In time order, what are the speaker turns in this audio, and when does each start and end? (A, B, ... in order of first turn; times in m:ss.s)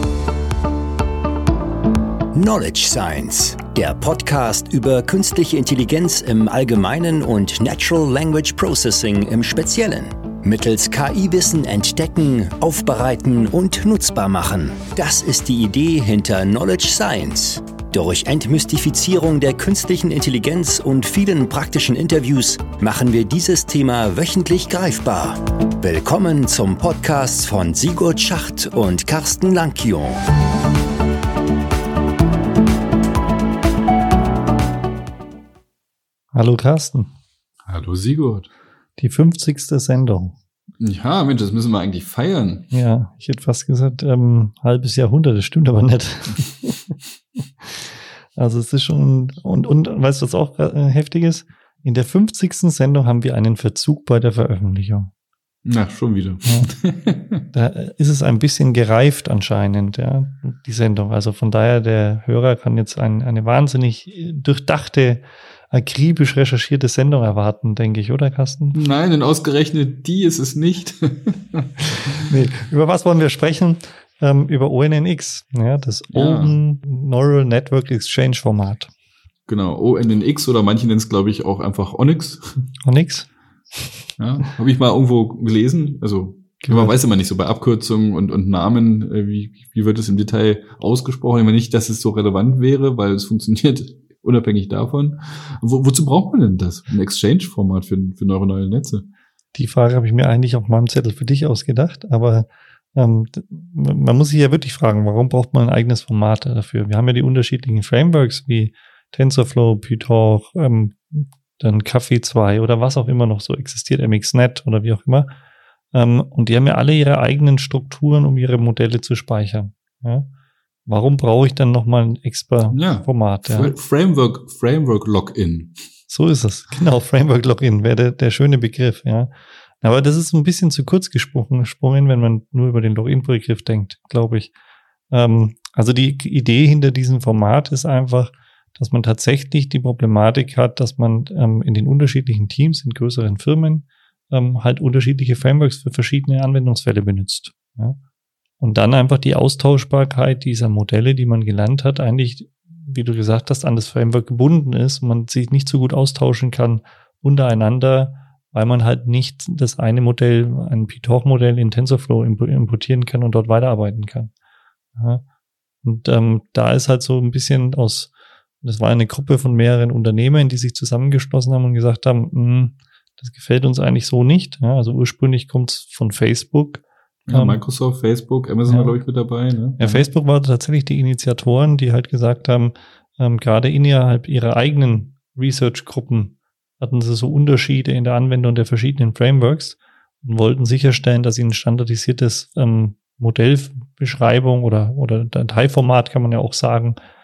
0:02.3-0:30.2 A
0:36.3-0:37.1 B
0:37.6-0:38.5 C
0:39.0-0:40.4 B
0:40.8-0:42.7 C
0:42.7-0:46.9 B
0:48.4-0:55.1 B
0:55.6-0:57.4 C
0:57.5-1:08.8 B
1:08.7-1:12.2 C
1:12.2-1:18.9 B
1:16.1-1:16.6 C
1:19.5-1:22.4 C
1:22.8-1:23.3 B
1:24.2-1:39.0 C
1:26.6-1:26.9 B
1:39.5-1:55.3 B
1:55.9-2:00.3 B
2:00.8-2:03.7 B
2:02.7-2:05.8 C
2:06.1-2:14.5 B
2:15.1-2:28.0 B
2:28.6-2:44.3 B
2:45.0-2:45.2 B
2:45.8-2:57.6 B
2:57.3-3:00.1 C
2:58.7-2:59.0 B
2:59.8-3:17.0 B